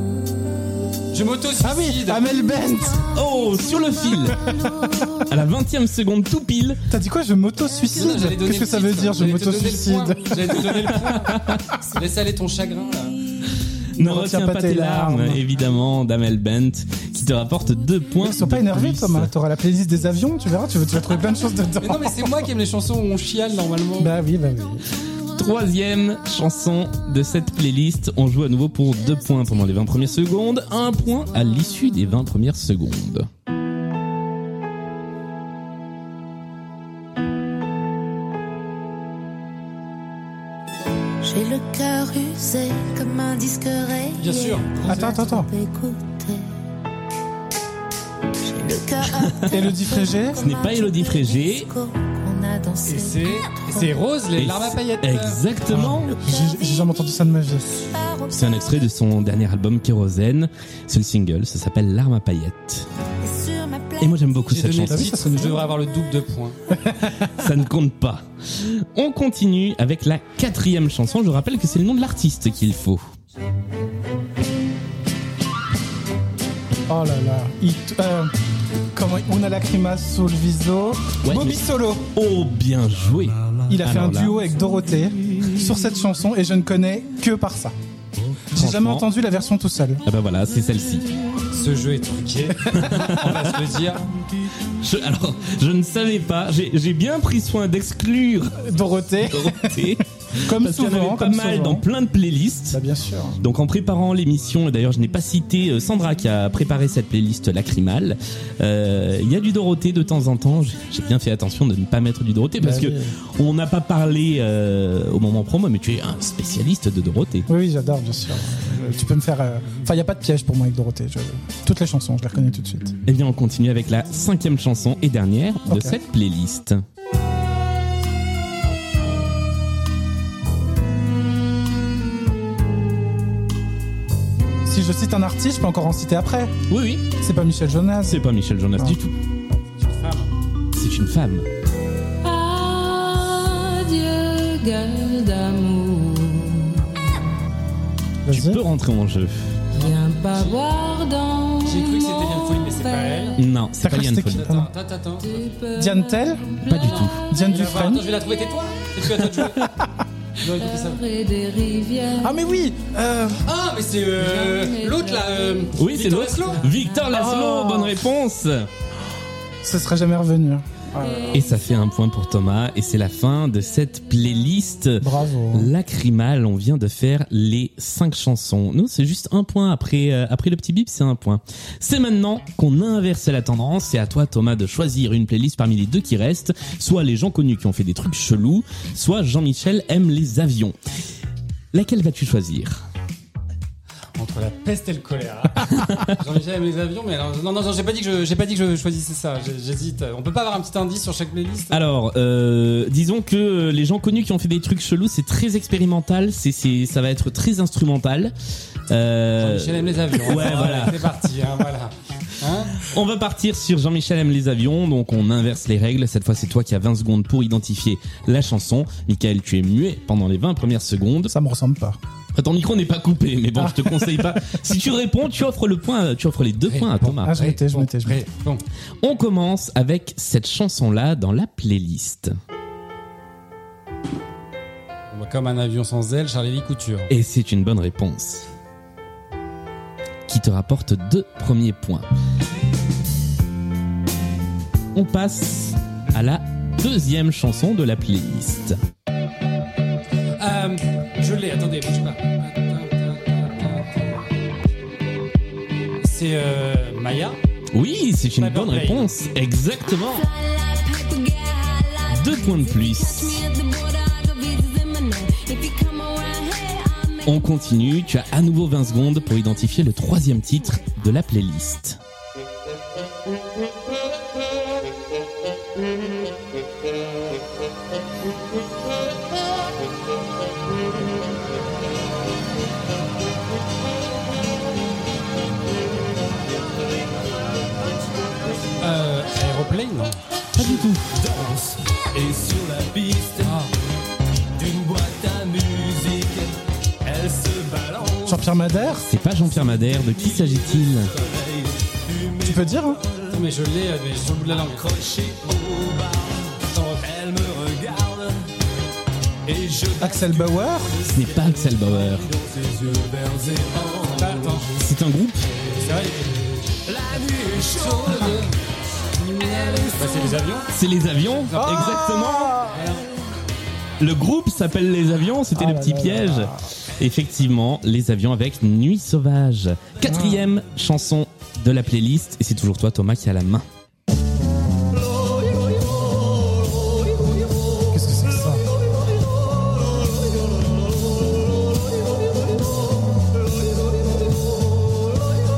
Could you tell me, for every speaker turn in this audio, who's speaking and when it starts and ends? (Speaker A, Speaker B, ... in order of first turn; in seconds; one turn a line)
Speaker A: 1.1-2.3
Speaker B: 1.6-3.1
Speaker C: 3.0-5.1
Speaker D: 3.1-4.5
Speaker D: 5.2-6.8
Speaker B: 6.9-10.6
Speaker A: 7.9-13.2
Speaker D: 11.2-11.6
Speaker B: 14.0-15.4
Speaker D: 14.0-19.3
Speaker B: 18.2-22.2
Speaker A: 21.8-24.1
Speaker B: 24.0-24.8
Speaker D: 25.3-33.3
Speaker C: 41.2-46.5
Speaker A: 44.2-45.1
Speaker B: 44.8-45.5
Speaker C: 48.4-53.9
Speaker D: 49.1-49.7
Speaker B: 49.5-50.4
Speaker D: 50.4-51.7
Speaker A: 52.8-55.4
Speaker D: 54.4-56.2
Speaker B: 55.7-57.8
Speaker C: 56.1-58.7
Speaker D: 58.3-62.9
Speaker C: 63.2-64.5
Speaker D: 64.0-65.1
Speaker A: 64.5-66.6
Speaker B: 64.8-65.7
Speaker B: 66.7-67.3
Speaker D: 67.3-73.0
Speaker B: 76.9-78.3
Speaker B: 78.9-82.1
Speaker D: 81.2-84.4
Speaker B: 83.7-87.7
Speaker D: 88.5-89.0
Speaker B: 88.5-90.0
Speaker D: 90.0-91.1
Speaker A: 91.5-94.0
Speaker D: 92.7-93.5
Speaker D: 94.8-98.7
Speaker B: 98.6-101.8
Speaker D: 99.2-102.8
Speaker B: 102.7-103.4
Speaker D: 103.4-117.5
Speaker B: 112.6-113.1
Speaker B: 117.5-122.9
Speaker D: 123.1-126.8
Speaker B: 125.7-125.9
Speaker B: 134.7-136.6
Speaker D: 136.7-137.1
Speaker B: 137.2-138.2
Speaker D: 138.1-139.1
Speaker A: 139.8-140.3
Speaker D: 140.7-141.5
Speaker E: 142.2-147.0
Speaker B: 148.2-148.6
Speaker D: 148.3-149.6
Speaker A: 149.7-150.6
Speaker E: 149.7-153.4
Speaker A: 151.6-153.4
Speaker D: 153.4-154.5
Speaker B: 153.8-154.7
Speaker A: 154.3-155.4
Speaker E: 155.2-157.4
Speaker B: 155.7-156.5
Speaker D: 156.7-157.2
Speaker A: 156.8-159.7
Speaker B: 157.2-158.1
Speaker A: 160.4-161.0
Speaker E: 160.4-162.4
Speaker B: 162.2-163.4
Speaker A: 163.4-166.7
Speaker E: 164.2-165.7
Speaker D: 165.8-168.7
Speaker B: 167.1-168.0
Speaker B: 169.6-171.4
Speaker D: 171.3-190.8
Speaker B: 175.0-175.7
Speaker D: 191.7-192.8
Speaker A: 194.2-201.8
Speaker D: 195.7-196.1
Speaker D: 201.7-208.3
Speaker D: 208.9-211.1
Speaker A: 209.4-212.9
Speaker D: 212.8-221.3
Speaker B: 221.3-222.0
Speaker D: 222.3-227.5
Speaker B: 223.6-224.6
Speaker A: 226.7-228.6
Speaker B: 227.2-228.2
Speaker D: 229.0-232.3
Speaker A: 235.1-237.1
Speaker D: 237.1-238.5
Speaker D: 240.3-242.1
Speaker D: 244.9-248.8
Speaker A: 250.4-254.3
Speaker A: 256.0-257.4
Speaker D: 257.7-260.3
Speaker A: 258.4-259.1
Speaker C: 260.0-267.5
Speaker D: 262.1-263.4
Speaker D: 267.2-272.0
Speaker A: 288.8-290.7
Speaker D: 290.6-291.2
Speaker F: 290.8-293.6
Speaker A: 293.4-293.7
Speaker F: 294.5-303.2
Speaker B: 298.2-299.1
Speaker D: 299.1-301.1
Speaker B: 302.4-303.0
Speaker A: 303.3-304.9
Speaker F: 304.7-308.4
Speaker A: 306.6-307.1
Speaker F: 309.4-314.9
Speaker B: 310.0-310.9
Speaker D: 311.1-312.3
Speaker A: 314.1-314.7
Speaker D: 314.7-315.5
Speaker F: 315.6-318.4
Speaker A: 315.7-316.4
Speaker A: 317.6-318.5
Speaker A: 319.2-320.7
Speaker F: 319.4-320.4
Speaker D: 320.7-322.7
Speaker A: 321.3-322.1
Speaker B: 321.6-322.7
Speaker A: 322.7-323.1
Speaker D: 324.0-333.6
Speaker B: 325.5-326.7
Speaker B: 330.0-330.5
Speaker B: 337.9-338.6